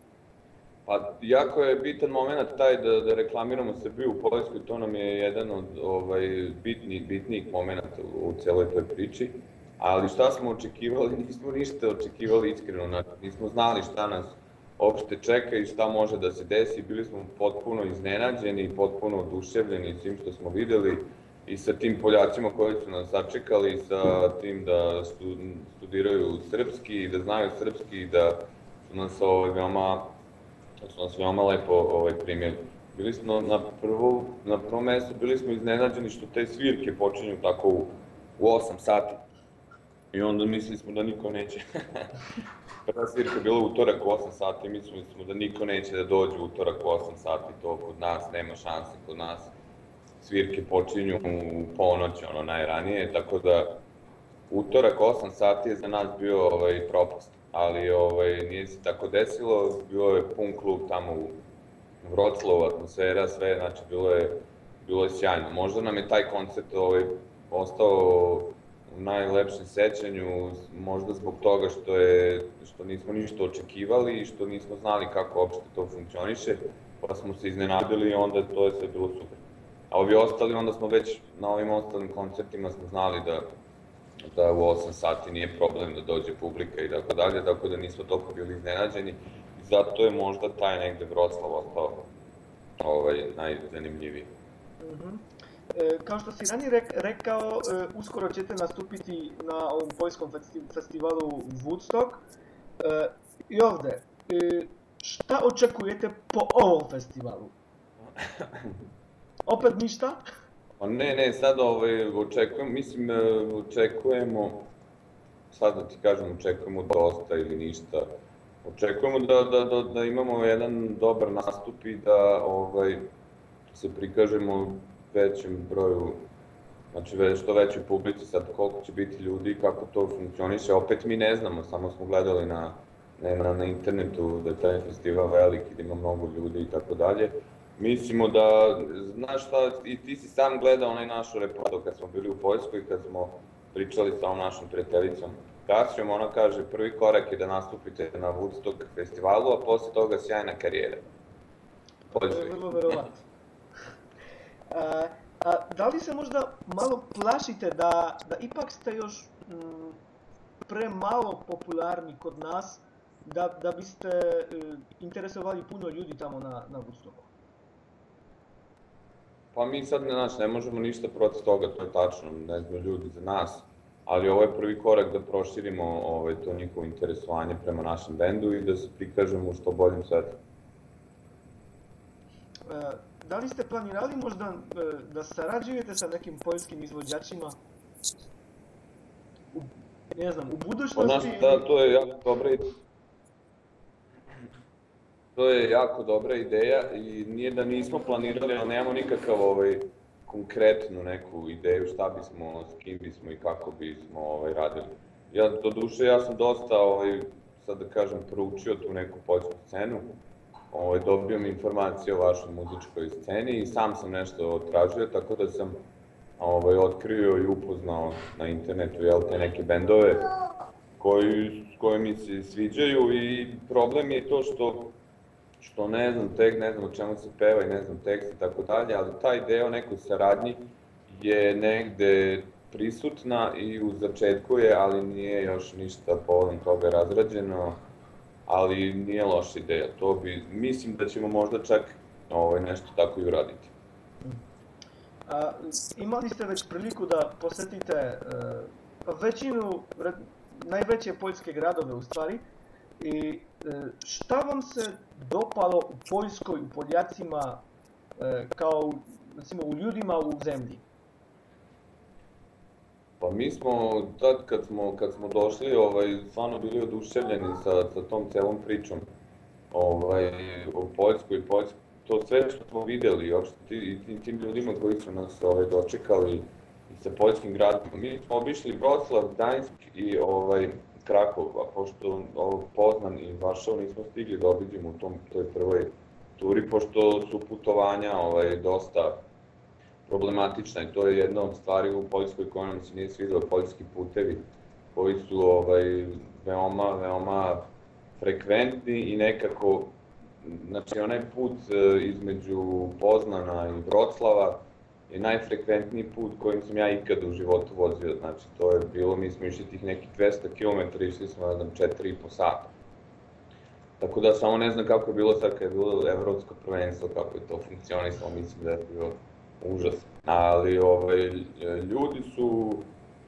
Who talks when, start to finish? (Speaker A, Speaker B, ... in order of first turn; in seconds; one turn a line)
Speaker A: 0.8-30.2
Speaker A: 30.8-39.2
Speaker A: 40.1-42.2
Speaker A: 42.9-49.5
Speaker A: 50.2-53.8
Speaker A: 54.5-61.4
Speaker A: 62.0-79.4
Speaker A: 79.9-83.5
Speaker A: 84.2-92.1
Speaker A: 92.8-94.3
Speaker B: 94.8-102.2
Speaker B: 102.8-107.5
Speaker A: 108.2-108.8
Speaker B: 109.5-110.2
Speaker A: 110.8-114.7
Speaker A: 115.5-118.1
Speaker A: 118.6-123.1
Speaker A: 123.7-126.3
Speaker A: 126.9-151.0
Speaker B: 152.1-153.2
Speaker A: 152.1-152.9
Speaker B: 154.7-160.0
Speaker B: 160.6-167.3
Speaker A: 169.5-180.4
Speaker B: 182.7-187.6
Speaker B: 189.5-191.7
Speaker A: 190.9-192.6
Speaker A: 195.3-210.2
Speaker A: 210.7-215.9
Speaker A: 216.4-220.3
Speaker A: 221.0-225.0
Speaker A: 225.6-237.8
Speaker A: 238.5-243.7
Speaker B: 245.3-252.4
Speaker B: 253.0-257.6
Speaker B: 258.2-260.8
Speaker A: 263.2-269.0
Speaker A: 269.7-289.2
Speaker A: 290.1-294.4
Speaker A: 294.9-312.7
Speaker A: 314.0-322.9